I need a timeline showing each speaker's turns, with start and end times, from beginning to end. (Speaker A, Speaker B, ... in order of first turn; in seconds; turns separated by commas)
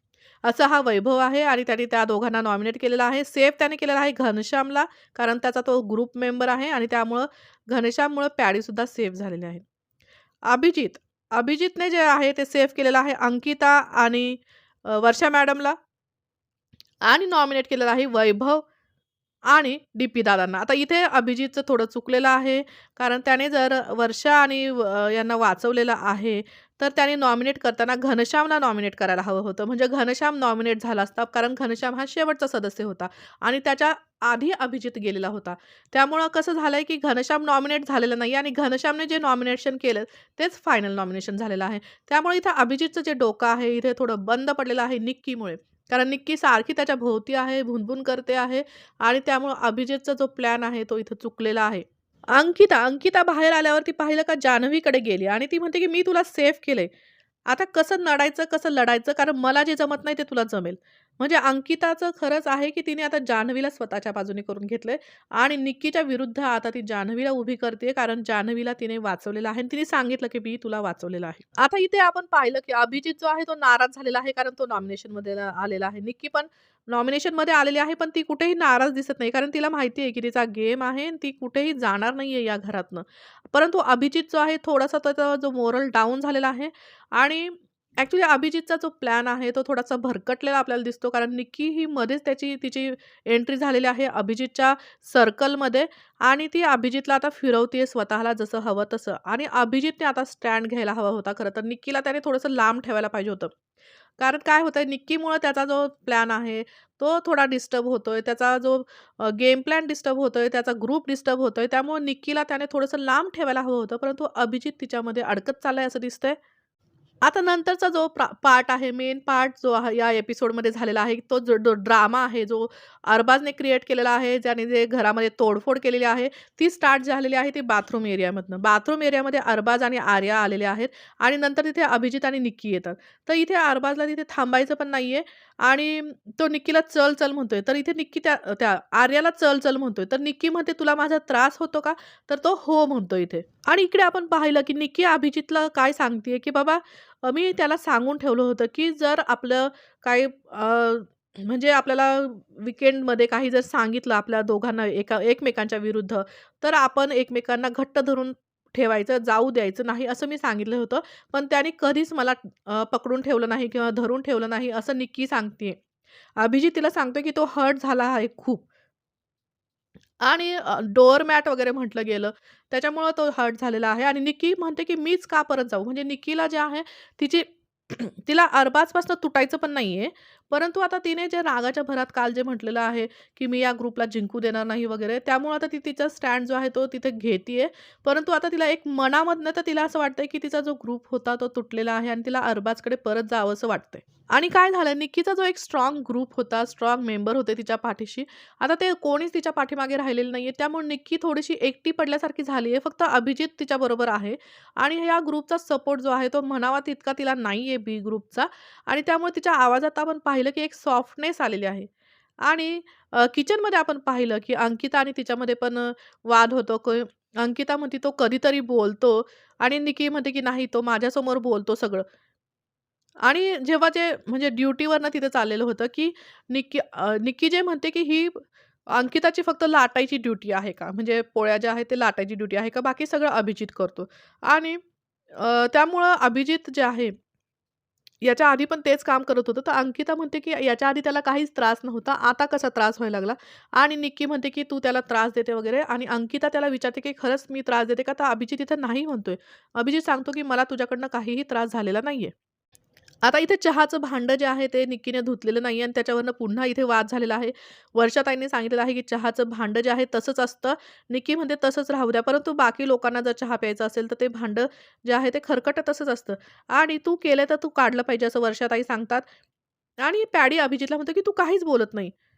Speaker A: 0.4-9.6, Speaker A: 10.5-15.8, Speaker A: 17.0-18.6, Speaker A: 19.5-56.9, Speaker A: 57.5-103.5, Speaker A: 104.2-116.4, Speaker A: 117.2-165.8, Speaker A: 166.4-168.7, Speaker A: 170.2-211.9, Speaker A: 212.4-222.1, Speaker A: 223.2-228.4, Speaker A: 228.9-234.8, Speaker A: 235.3-237.1, Speaker A: 238.2-252.3, Speaker A: 253.2-269.2, Speaker A: 270.0-272.1